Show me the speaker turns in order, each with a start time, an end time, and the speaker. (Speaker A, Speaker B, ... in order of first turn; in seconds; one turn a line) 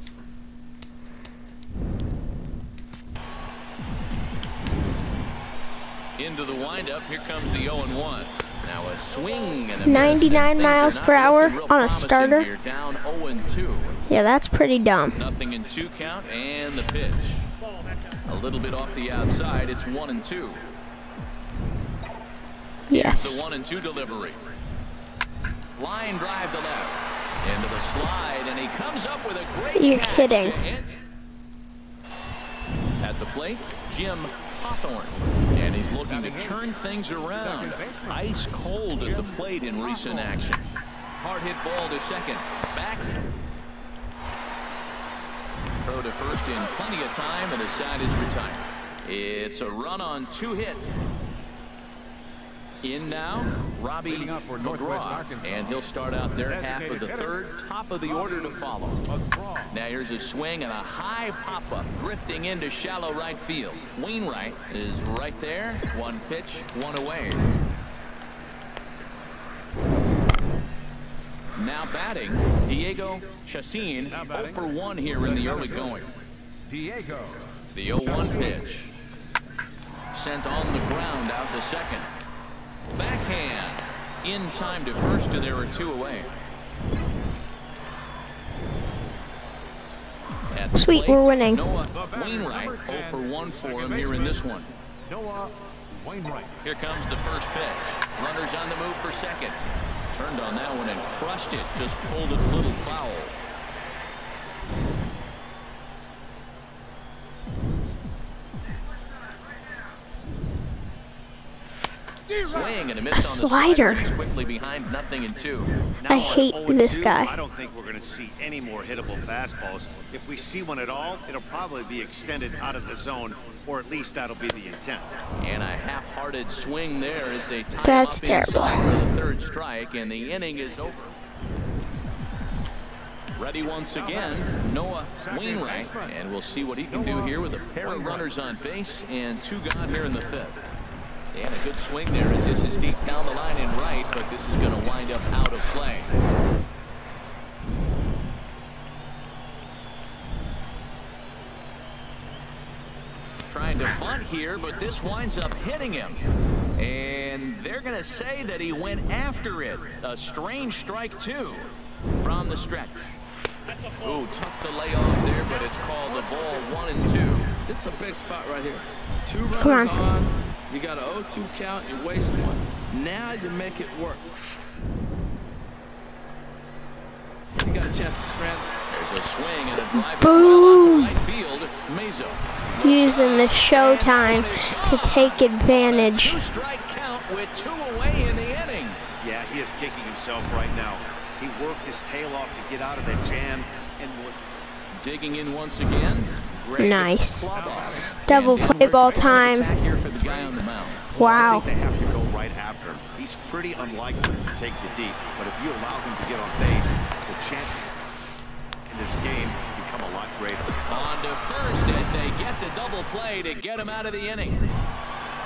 Speaker A: 6.2-14.0
Speaker B: 9.8-12.5
Speaker B: 14.1-15.2
Speaker A: 15.1-17.5
Speaker A: 18.3-20.8
Speaker B: 22.9-23.4
Speaker A: 22.9-24.4
Speaker A: 25.8-30.9
Speaker B: 29.8-30.6
Speaker A: 33.0-40.7
Speaker C: 36.1-36.6
Speaker C: 37.4-38.3
Speaker C: 39.0-40.3
Speaker A: 41.2-43.2
Speaker A: 45.9-50.9
Speaker A: 52.8-59.0
Speaker C: 54.1-55.8
Speaker C: 56.5-57.2
Speaker C: 59.1-59.7
Speaker A: 59.7-67.5
Speaker A: 71.5-76.1
Speaker C: 74.1-74.7
Speaker C: 75.2-76.0
Speaker C: 76.7-78.5
Speaker A: 77.7-78.9
Speaker A: 80.1-82.1
Speaker A: 82.9-86.3
Speaker A: 90.5-94.7
Speaker B: 90.8-91.6
Speaker C: 91.9-94.4
Speaker C: 95.1-96.6
Speaker A: 96.6-99.6
Speaker A: 100.1-103.4
Speaker A: 112.4-115.7
Speaker B: 113.1-114.0
Speaker D: 116.0-125.1
Speaker B: 116.1-117.3
Speaker A: 125.4-131.1
Speaker B: 127.8-129.0
Speaker A: 133.4-140.7
Speaker C: 135.2-136.1
Speaker C: 136.9-137.3
Speaker C: 137.9-138.2
Speaker A: 141.3-146.2
Speaker A: 153.5-156.2
Speaker A: 156.8-163.2
Speaker A: 164.0-167.5
Speaker E: 167.7-174.3
Speaker B: 169.6-170.0
Speaker E: 177.6-178.7
Speaker A: 178.9-189.0
Speaker B: 179.9-181.2
Speaker B: 182.8-186.4
Speaker D: 189.2-194.5
Speaker A: 195.0-201.2
Speaker B: 196.8-197.5
Speaker C: 197.5-198.2
Speaker B: 198.3-199.7
Speaker B: 201.2-201.6
Speaker D: 201.2-207.9
Speaker D: 208.9-210.8
Speaker A: 210.9-214.6